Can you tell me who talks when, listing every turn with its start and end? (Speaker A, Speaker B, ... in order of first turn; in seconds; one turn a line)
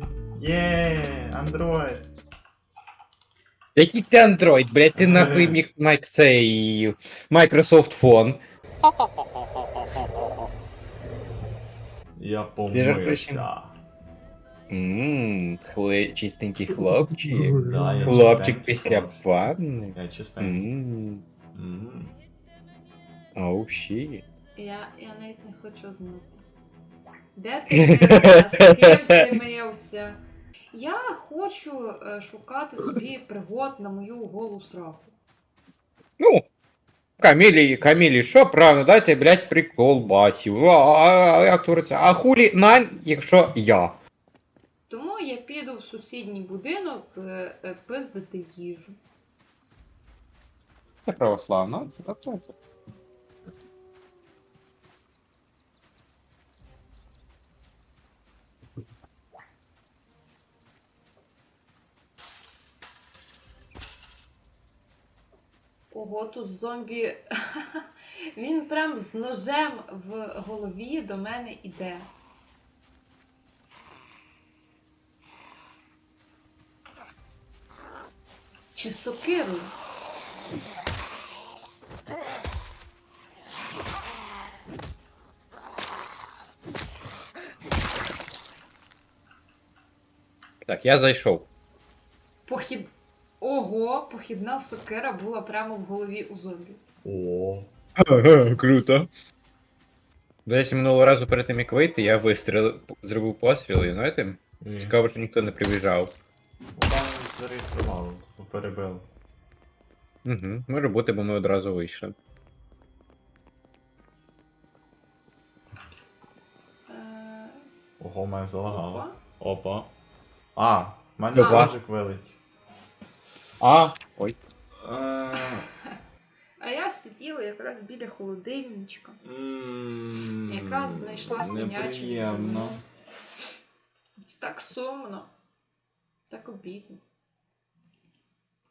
Speaker A: 0.3-2.0
Speaker B: 3.7-8.4
Speaker A: 4.9-5.6
Speaker A: 12.2-13.8
Speaker B: 12.7-13.4
Speaker B: 14.7-21.2
Speaker A: 17.5-19.2
Speaker A: 19.9-20.6
Speaker A: 21.5-22.1
Speaker B: 23.4-24.2
Speaker C: 24.6-26.4
Speaker C: 27.3-30.2
Speaker B: 27.7-29.1
Speaker C: 30.7-35.1
Speaker B: 36.2-36.4
Speaker B: 37.2-44.0
Speaker C: 44.9-49.0
Speaker B: 51.0-52.5
Speaker C: 65.9-72.1
Speaker C: 78.7-79.7
Speaker B: 90.6-91.5
Speaker C: 92.5-96.8
Speaker A: 97.0-97.7
Speaker B: 98.0-99.1
Speaker B: 100.5-106.1
Speaker A: 104.6-105.0
Speaker A: 106.7-109.0
Speaker B: 110.2-112.1
Speaker C: 116.9-117.7
Speaker A: 118.0-119.9
Speaker C: 118.7-119.2
Speaker A: 120.5-122.3
Speaker B: 121.3-121.7
Speaker C: 121.4-121.7
Speaker B: 123.6-124.4
Speaker A: 124.8-125.6
Speaker C: 126.6-129.2
Speaker A: 129.2-132.8
Speaker C: 130.5-132.8
Speaker C: 134.2-135.3
Speaker C: 136.3-137.0